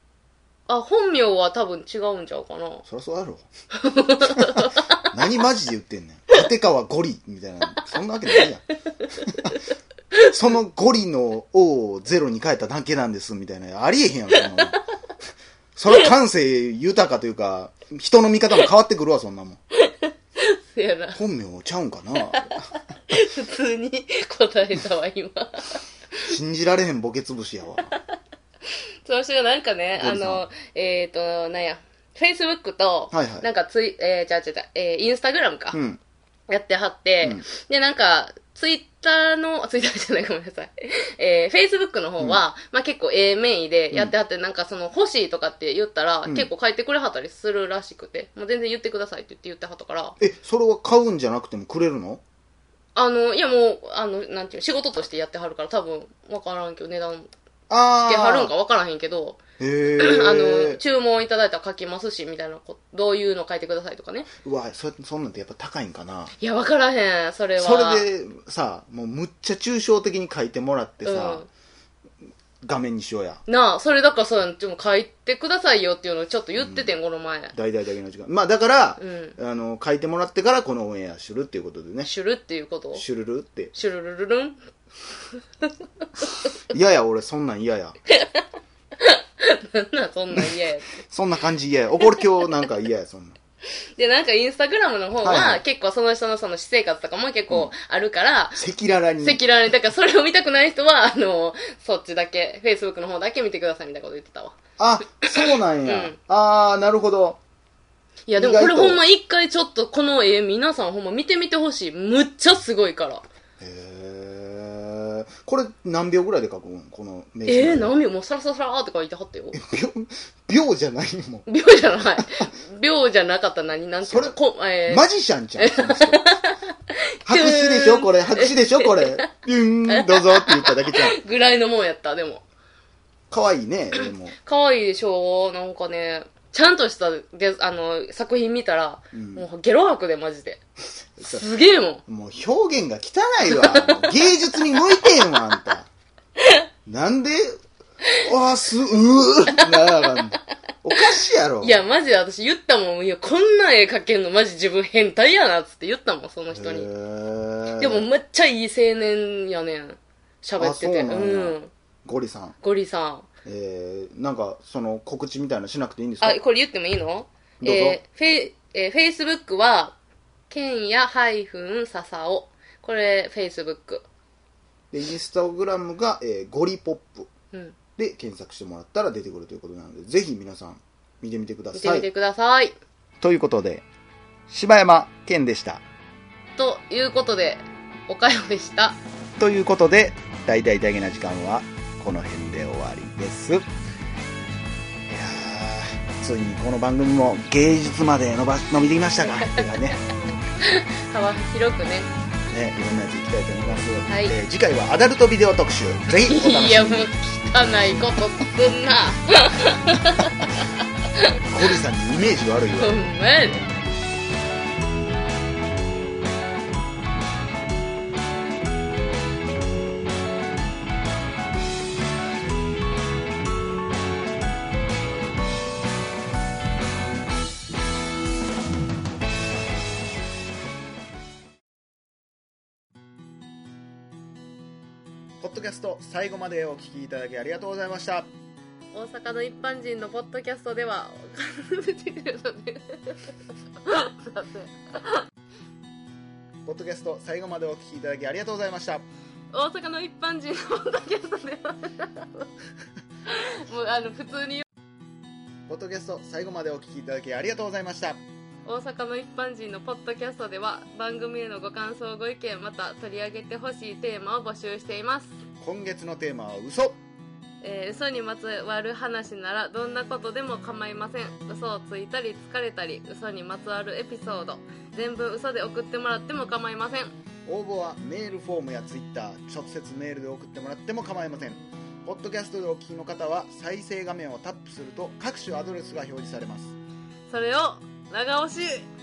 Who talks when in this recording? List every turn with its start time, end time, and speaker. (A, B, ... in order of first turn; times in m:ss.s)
0:00.7-0:02.8 A
0:02.8-0:03.5 B
0:03.7-0:05.1 A
0:04.2-0:08.6 B
0:09.3-0:09.6 B
0:10.3-0:14.8 B
0:14.4-0:14.8 A
0:15.8-0:19.6 B
0:19.8-0:21.2 A
0:21.2-0:22.5 B
0:23.1-0:26.3 A
0:26.3-0:27.9 B
0:29.0-0:35.8 A
0:30.0-0:30.4 B
0:33.1-0:33.5 B
0:35.7-0:36.0 B
0:36.5-0:50.2 A
0:50.2-0:52.2 B
0:53.0-0:57.3 A
0:57.7-0:58.5 B
0:58.0-0:59.4 A
0:59.6-1:00.8 B
1:00.0-1:04.3 A
1:04.4-1:06.3 B
1:06.4-1:08.0 A
1:07.6-1:11.4 B
1:11.0-1:11.5 A
1:12.6-1:13.4 B
1:13.5-1:17.6 A
1:16.6-1:16.9 B
1:17.5-1:22.1 B
1:19.0-1:19.4 A
1:22.0-1:23.0 A
1:22.9-1:23.7 B
1:23.7-1:24.6 A
1:26.7-1:28.0 B
1:28.2-1:28.4 A
1:29.0-1:30.9 A
1:30.3-1:33.4 B
1:34.0-1:38.6 A
1:35.2-1:35.6 B
1:38.6-1:39.4 B
1:39.2-1:44.5 A
1:44.8-1:47.4 B
1:45.9-1:46.2 A
1:48.3-1:53.2 A
1:48.4-1:49.0 B
1:53.6-1:57.9 B
1:57.4-1:59.6 A
1:59.5-2:01.5 B
2:01.5-2:05.1 A
2:02.2-2:02.5 B
2:04.0-2:06.2 B
2:05.6-2:09.3 A
2:07.3-2:11.2 B
2:09.9-2:12.4 A
2:13.3-2:14.4 B
2:14.0-2:20.6 A
2:19.1-2:19.5 B
2:21.2-2:21.5 B
2:21.2-2:22.0 A
2:22.1-2:25.9 B
2:23.4-2:24.1 A
2:26.9-2:27.6 B
2:28.2-2:31.8 B
2:29.5-2:30.2 A
2:31.6-2:36.9 A
2:36.5-2:38.1 B
2:37.8-2:41.7 A
2:40.6-2:42.6 B
2:42.6-2:43.3 A
2:43.4-2:46.4 B
2:46.2-2:50.0 A
2:47.6-2:48.0 B
2:50.5-2:54.0 A
2:54.9-2:57.3 B
2:58.0-3:02.1 B
3:01.7-3:02.8 A
3:03.2-3:03.8 B
3:04.5-3:05.8 B
3:06.6-3:09.0 A
3:09.4-3:13.6 B
3:15.1-3:20.0 B
3:19.4-3:22.1 A
3:22.5-3:27.1 B
3:24.1-3:24.4 A
3:26.2-3:30.6 A
3:31.5-3:33.1 B
3:32.8-3:33.7 A
3:55.4-3:58.3 B
3:58.9-4:05.2 A
4:06.6-4:09.0 B
4:09.5-4:12.5 A
4:13.3-4:14.6 A
4:15.7-4:18.2 B
4:18.6-4:25.3 A
4:25.6-4:27.0 B
4:27.6-4:37.1 A
4:37.5-4:46.8 B
4:47.3-4:48.9 A